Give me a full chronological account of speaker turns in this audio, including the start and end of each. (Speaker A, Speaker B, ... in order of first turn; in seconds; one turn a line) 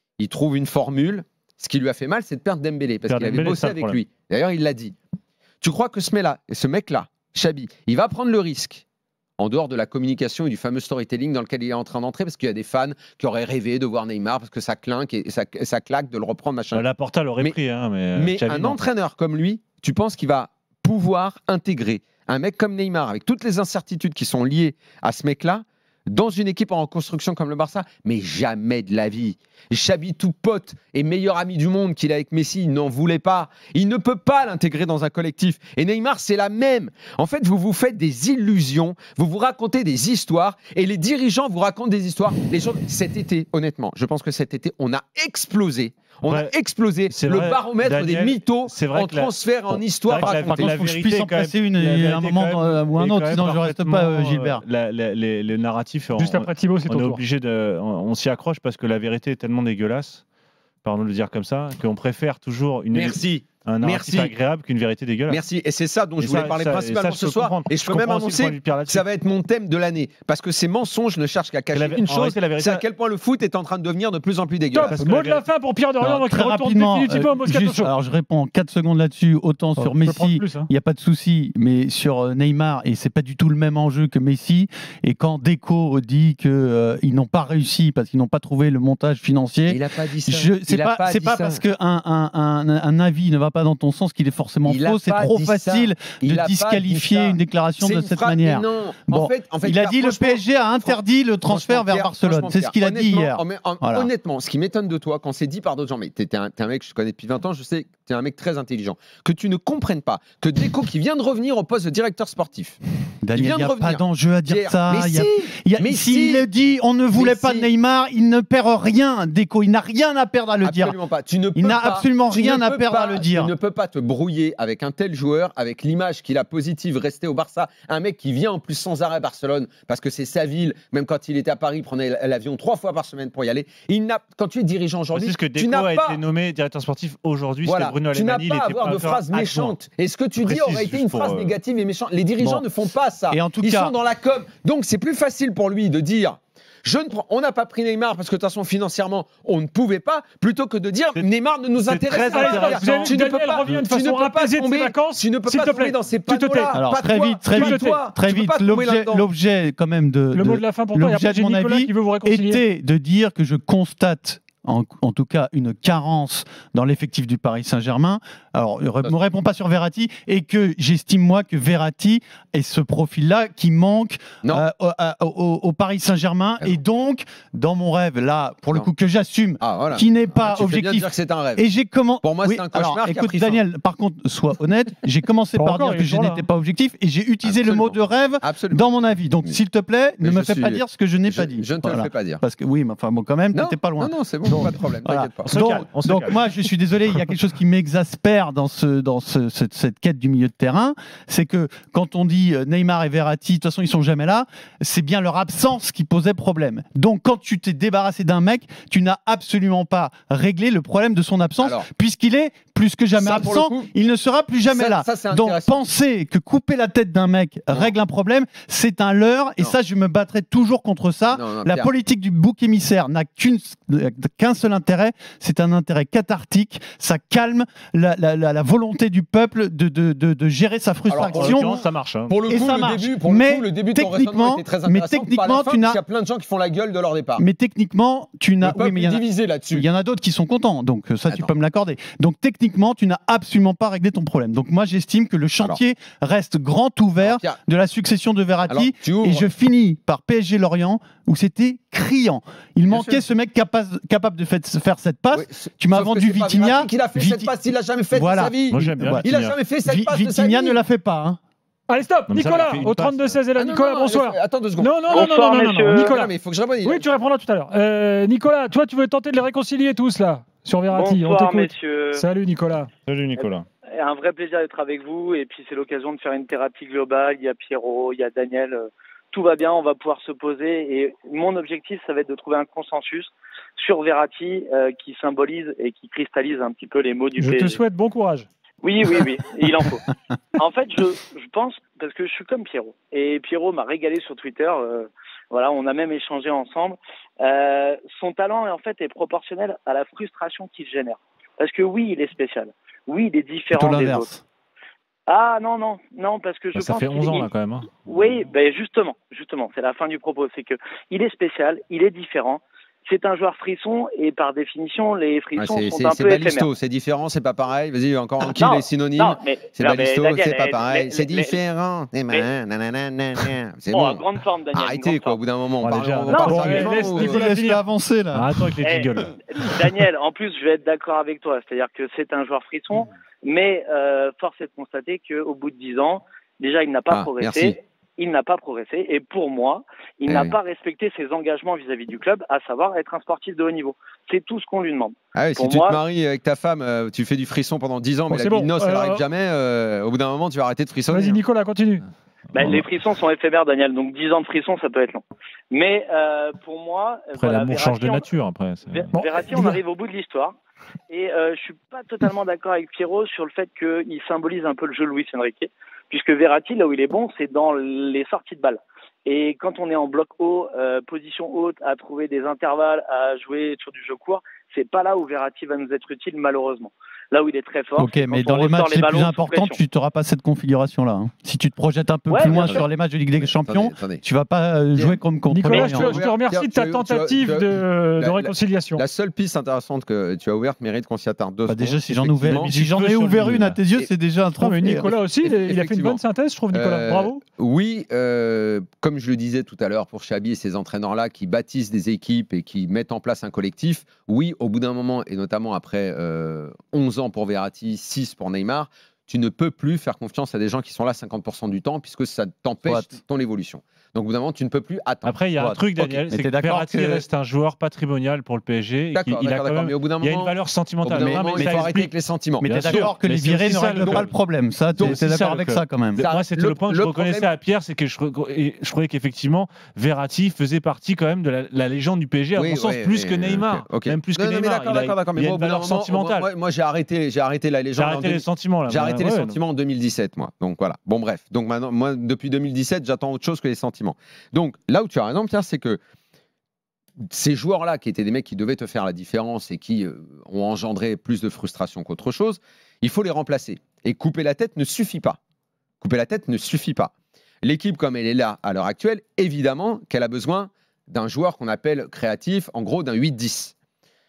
Speaker A: 0.2-5.0
Speaker B: 3.0-4.0
Speaker A: 5.6-8.8
Speaker A: 9.4-16.8
Speaker B: 16.7-18.8
Speaker A: 18.1-50.8
Speaker B: 46.2-46.5
Speaker B: 47.1-49.3
Speaker B: 49.9-60.2
Speaker C: 50.2-54.6
Speaker D: 56.1-57.2
Speaker B: 60.8-65.4
Speaker A: 62.9-64.3
Speaker A: 65.3-75.0
Speaker B: 66.2-69.0
Speaker B: 71.7-72.8
Speaker D: 74.7-77.9
Speaker B: 74.8-75.4
Speaker C: 76.0-104.1
Speaker D: 79.8-80.7
Speaker A: 89.7-91.6
Speaker A: 94.6-112.8
Speaker C: 113.2-121.0
Speaker A: 113.3-116.4
Speaker A: 117.1-117.7
Speaker A: 120.6-136.2
Speaker C: 121.5-123.5
Speaker B: 135.1-139.8
Speaker A: 137.6-159.3
Speaker B: 140.4-141.5
Speaker C: 142.4-142.7
Speaker C: 143.3-143.9
Speaker B: 151.8-152.8
Speaker D: 152.3-156.8
Speaker C: 156.7-231.8
Speaker D: 157.5-158.0
Speaker D: 160.3-162.6
Speaker A: 179.6-181.6
Speaker A: 182.2-183.6
Speaker D: 185.6-186.4
Speaker A: 187.4-188.9
Speaker A: 190.2-192.4
Speaker A: 193.5-195.6
Speaker B: 195.4-196.4
Speaker A: 211.6-211.9
Speaker A: 213.1-213.9
Speaker A: 214.7-215.8
Speaker A: 221.3-221.9
Speaker A: 231.1-237.4
Speaker B: 231.2-232.3
Speaker C: 232.5-236.0
Speaker C: 237.4-257.5
Speaker A: 238.6-239.8
Speaker A: 247.2-247.6
Speaker A: 248.7-249.5
Speaker A: 252.9-253.2
Speaker A: 255.3-260.8
Speaker C: 258.1-259.3
Speaker B: 258.7-259.6
Speaker C: 259.8-261.4
Speaker D: 261.9-272.9
Speaker B: 262.3-263.4
Speaker A: 263.6-265.3
Speaker E: 265.1-266.1
Speaker A: 265.9-267.1
Speaker E: 270.9-272.3
Speaker B: 273.1-273.6
Speaker E: 273.4-287.8
Speaker D: 287.4-288.5
Speaker E: 288.8-290.0
Speaker E: 290.6-304.3
Speaker C: 303.7-304.4
Speaker E: 305.3-307.5
Speaker B: 306.8-308.0
Speaker E: 308.0-316.7
Speaker A: 315.5-327.5
Speaker E: 318.4-321.6
Speaker E: 323.9-325.4
Speaker B: 325.8-327.0
Speaker E: 326.3-326.9
Speaker D: 326.4-327.8
Speaker C: 327.1-328.6
Speaker B: 328.3-329.4
Speaker E: 328.8-346.0
Speaker A: 337.1-337.8
Speaker A: 340.2-340.6
Speaker A: 345.3-351.4
Speaker D: 348.3-349.2
Speaker D: 351.1-352.0
Speaker B: 352.5-352.8
Speaker E: 352.5-358.3
Speaker B: 357.4-359.1
Speaker E: 358.9-360.6
Speaker D: 359.1-359.8
Speaker E: 361.1-379.8
Speaker C: 378.0-386.2
Speaker E: 382.3-382.8
Speaker A: 382.4-382.9
Speaker A: 383.4-384.2
Speaker A: 384.9-392.7
Speaker D: 385.5-389.0
Speaker C: 391.6-395.1
Speaker B: 392.5-393.8
Speaker D: 394.6-397.4
Speaker A: 395.0-415.3
Speaker C: 412.9-413.2
Speaker B: 415.2-422.1
Speaker C: 415.6-417.2
Speaker A: 419.1-423.1
Speaker C: 421.2-421.9
Speaker C: 422.6-426.2
Speaker B: 422.6-424.3
Speaker A: 423.9-424.3
Speaker B: 424.9-436.5
Speaker A: 424.9-425.3
Speaker A: 426.1-427.5
Speaker A: 432.5-446.0
Speaker B: 437.9-439.6
Speaker A: 447.2-455.4
Speaker A: 456.0-463.7